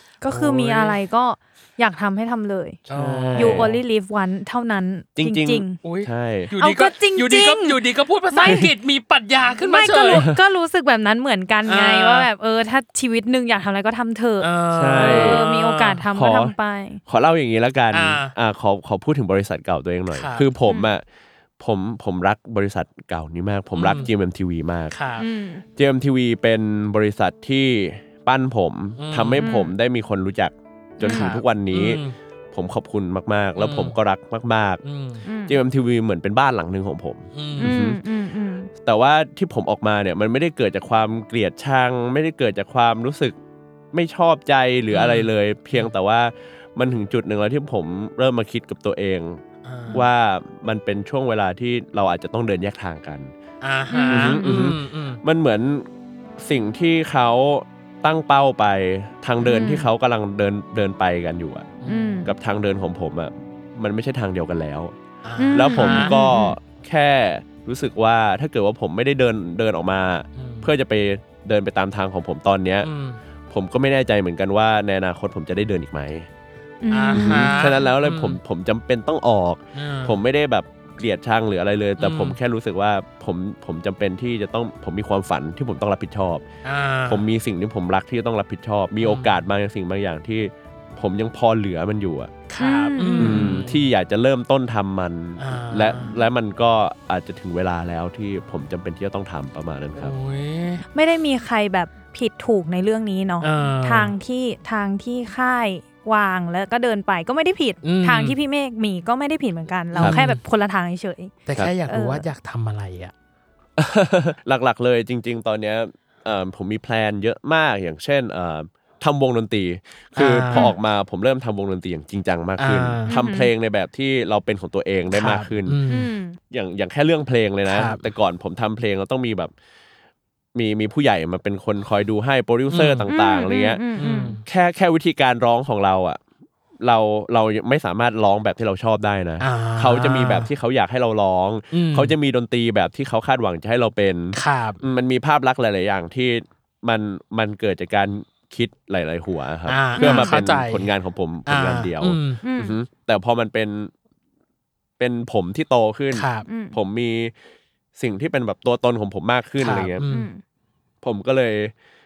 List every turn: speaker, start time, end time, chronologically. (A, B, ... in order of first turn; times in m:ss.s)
0:00.2-0:02.8 A
0:00.3-0:01.0 B
0:02.9-0:03.8 B
0:02.9-0:03.7 C
0:03.4-0:05.8 A
0:05.2-0:06.5 C
0:05.8-0:10.2 B
0:06.6-0:07.8 A
0:08.3-0:08.6 A
0:09.6-0:17.0 A
0:10.1-0:10.4 C
0:11.7-0:12.3 B
0:14.4-0:16.0 B
0:14.7-0:15.4 C
0:16.1-0:16.5 C
0:17.1-0:21.0 C
0:17.9-0:18.3 B
0:20.1-0:20.5 B
0:21.6-0:25.0 C
0:23.8-0:24.1 B
0:24.9-0:25.3 B
0:25.2-0:25.6 A
0:25.8-0:34.8 C
0:29.0-0:29.6 B
0:29.4-0:29.7 A
0:31.0-0:32.2 B
0:31.0-0:31.3 A
0:33.6-0:34.0 B
0:34.8-0:35.3 B
0:35.3-0:35.6 A
0:35.5-0:38.0 C
0:37.4-0:37.7 B
0:37.6-0:38.7 A
0:38.8-0:43.4 C
0:43.9-0:49.4 C
0:44.9-0:45.9 B
0:49.6-0:50.1 B
0:49.9-0:53.3 C
0:53.6-0:55.2 B
0:53.9-0:54.8 A
0:54.1-0:55.9 C
0:56.4-1:01.7 C
0:59.4-0:59.9 A
1:01.8-1:02.1 B
1:01.9-1:02.3 A
1:02.2-1:05.0 C
1:05.2-1:06.2 B
1:05.4-1:06.6 A
1:05.5-1:12.9 C
1:10.4-1:10.7 B
1:12.8-1:13.2 B
1:13.5-1:16.3 C
1:16.8-1:17.7 A
1:16.9-1:18.4 B
1:17.1-1:26.4 C
1:19.7-1:20.2 B
1:22.0-1:22.4 B
1:26.6-1:27.2 B
1:27.1-1:32.3 C
1:29.0-1:29.5 B
1:32.5-1:33.9 B
1:32.6-1:33.5 A
1:33.2-1:40.2 C
1:35.4-1:36.2 B
1:40.0-1:40.8 B
1:40.9-1:52.2 A
1:43.4-1:44.1 B
1:47.8-1:48.4 B
1:49.9-1:50.4 B
1:51.5-1:53.1 B
1:53.8-2:05.8 C
2:00.2-2:00.7 B
2:02.6-2:03.1 B
2:03.1-2:03.5 A
2:05.1-2:06.1 B
2:05.9-2:06.4 A
2:06.5-2:09.5 C
2:07.7-2:08.0 B
2:10.6-2:13.8 C
2:12.7-2:13.1 B
2:13.1-2:14.4 A
2:14.0-2:14.4 B
2:14.5-2:16.2 C
2:16.8-2:33.9 C
2:19.4-2:20.5 B
2:21.7-2:22.1 B
2:24.3-2:24.8 B
2:29.7-2:30.9 B
2:30.0-2:30.4 A
2:31.5-2:32.4 B
2:32.4-2:32.8 A
2:35.0-2:37.3 C
2:36.1-2:36.5 B
2:36.5-2:36.8 A
2:38.0-2:40.0 C
2:39.6-2:40.3 B
2:40.1-2:40.4 A
2:41.0-2:41.7 C